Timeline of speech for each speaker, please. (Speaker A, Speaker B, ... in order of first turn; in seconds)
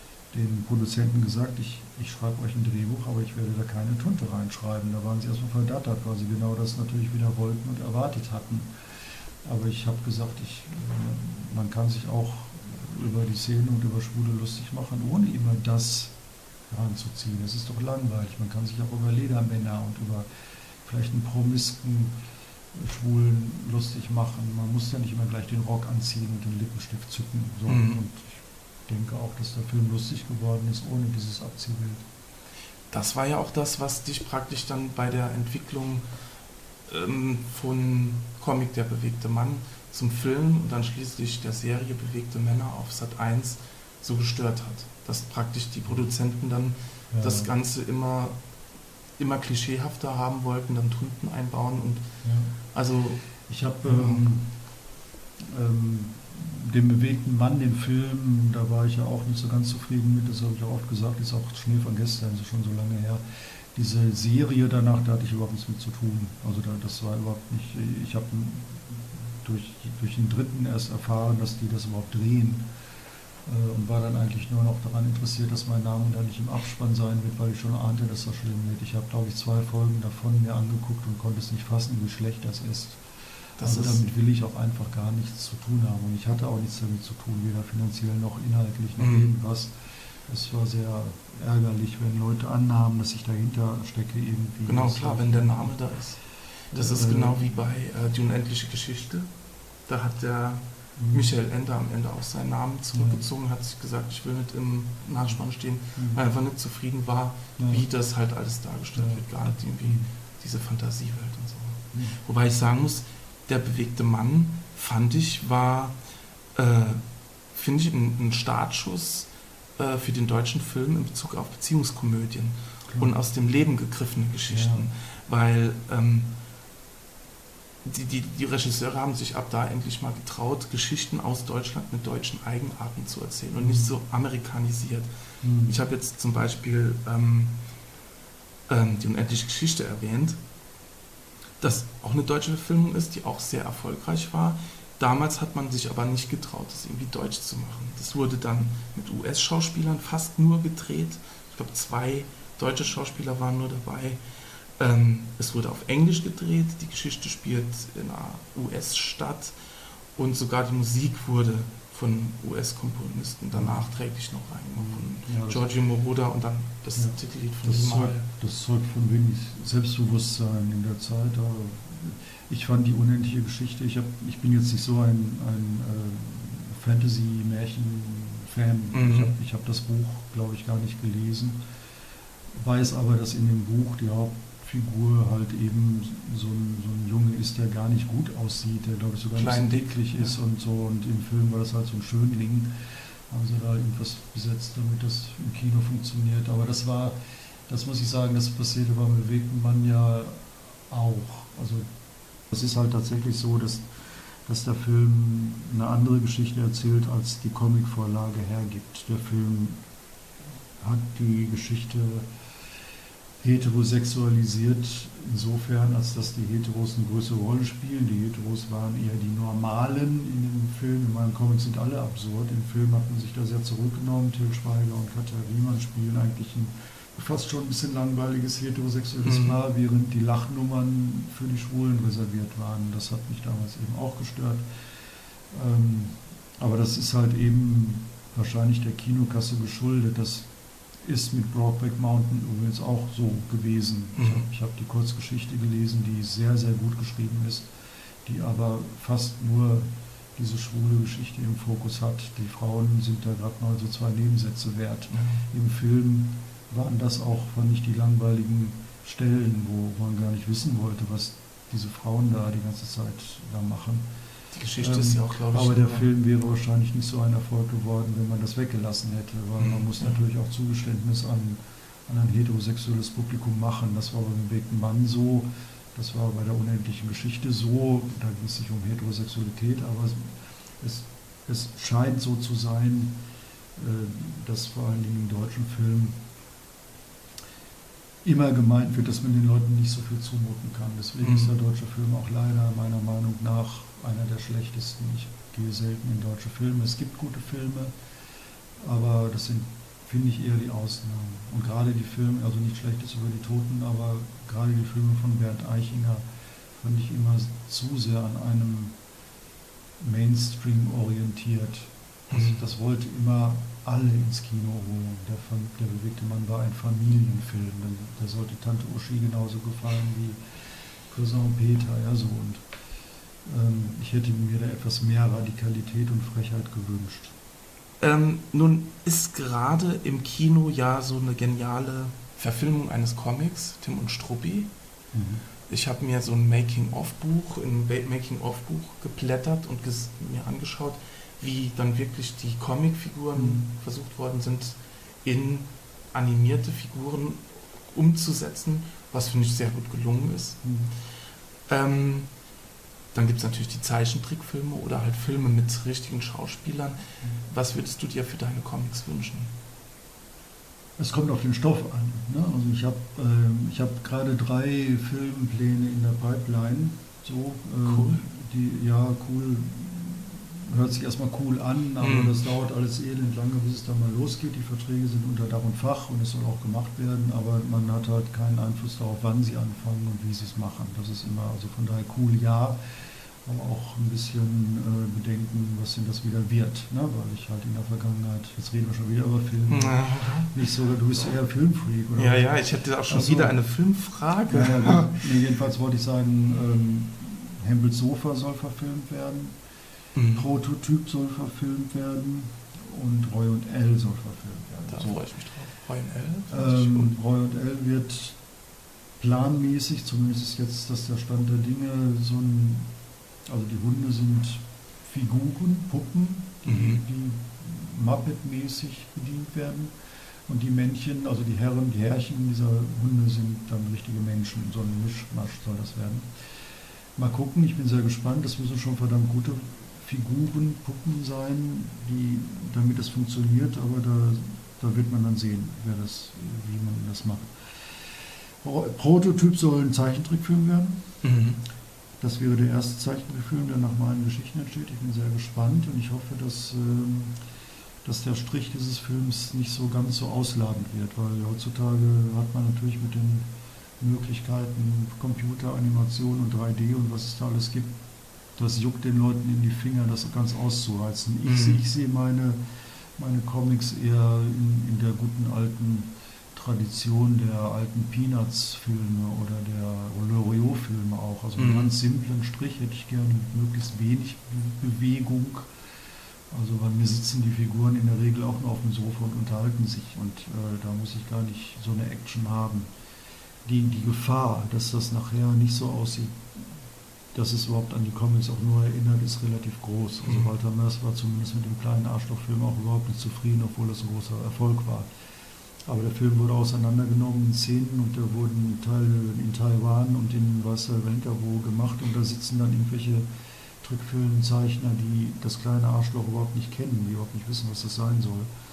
Speaker A: 0.3-16.1, 16.7-20.3, 20.9-22.1, 22.7-32.0, 47.1-47.5, 52.2-52.5, 53.5-54.5, 55.4-72.7, 73.5-83.0, 83.6-89.8, 90.3-95.7, 96.7-97.4, 101.0-101.3, 103.0-103.3, 106.0-106.2, 107.6-107.9, 109.0-110.1, 124.5-124.9, 133.6-133.9, 135.4-135.8, 163.5-163.8, 164.8-165.7, 166.9-181.6, 182.6-192.7, 193.3-197.2, 197.7-201.9, 202.5-203.9, 204.4-209.8, 210.8-212.3, 213.4-234.6, 235.5-240.5, 241.0-247.7, 248.2-264.1, 264.8-280.3, 280.8-283.2, 283.8-286.2, 288.2-297.9, 298.8-306.2, 306.8-309.0, 310.0-320.4, 321.1-322.6, 323.4-327.3, 335.1-335.4, 343.4-343.7, 350.6-350.9, 361.0-382.8, 383.4-393.6, 394.5-399.6, 400.4-405.2, 406.5-408.4, 409.2-412.9, 413.5-419.9, 420.5-426.3, 427.2-441.0, 442.2-447.4, 448.0-453.5, 454.0-458.0, 458.6-462.6, 463.2-475.7, 476.5-482.9, 483.6-486.4, 487.3-495.1, 495.9-503.3, 503.8-508.5
Speaker B: 27.7-28.0, 32.9-36.1, 36.9-48.4, 49.2-52.0, 52.7-53.2, 53.9-54.2, 83.6-84.1, 89.0-89.3, 94.7-96.2, 96.7-99.3, 99.9-116.0, 116.5-126.3, 127.8-135.1, 135.7-137.6, 138.7-140.4, 141.6-154.2, 154.8-159.6, 160.2-168.3, 178.9-179.3, 189.4-190.4, 229.2-229.6, 244.2-244.4, 255.1-255.4, 264.5-266.1, 269.6-270.1, 291.2-291.6, 312.3-312.6, 328.0-334.7, 335.7-350.6, 351.7-352.3, 353.1-359.5, 367.9-368.2, 372.0-372.4, 389.7-390.6, 392.2-395.2, 400.2-400.5, 404.9-407.2, 416.7-417.0, 441.2-441.6, 461.5-461.8, 471.6-471.9, 490.2-490.5